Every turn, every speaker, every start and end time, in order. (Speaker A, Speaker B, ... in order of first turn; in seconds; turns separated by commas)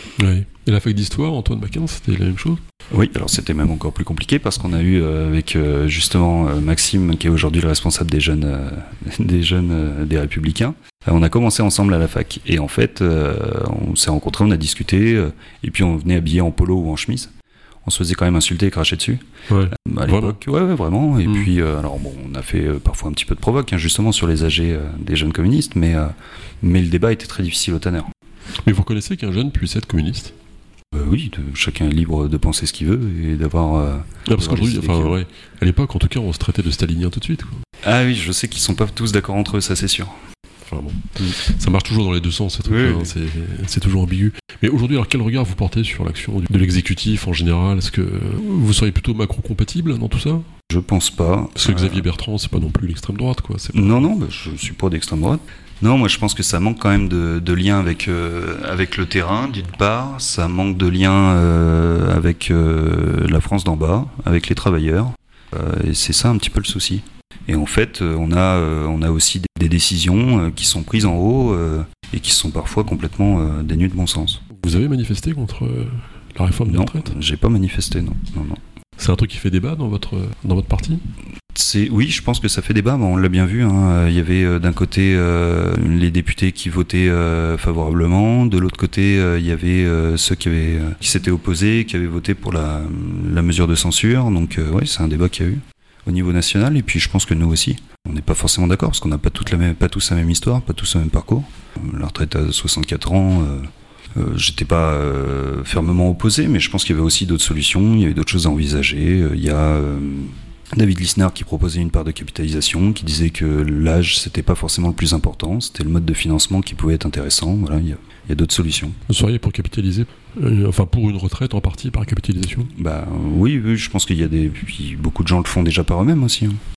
Speaker A: 0.2-2.6, Speaker B: 2.9-17.3, Speaker B: 17.8-28.1, Speaker A: 19.5-20.4, Speaker A: 28.6-30.3, Speaker B: 30.9-35.2, Speaker A: 34.2-37.6, Speaker B: 37.8-40.2, Speaker A: 40.6-50.5, Speaker B: 42.6-43.1, Speaker B: 50.7-52.1, Speaker A: 51.5-54.1, Speaker B: 53.7-74.4, Speaker A: 74.5-77.1, Speaker B: 76.7-78.6, Speaker A: 79.0-81.0, Speaker B: 81.5-119.0, Speaker A: 119.1-122.7, Speaker B: 122.7-126.6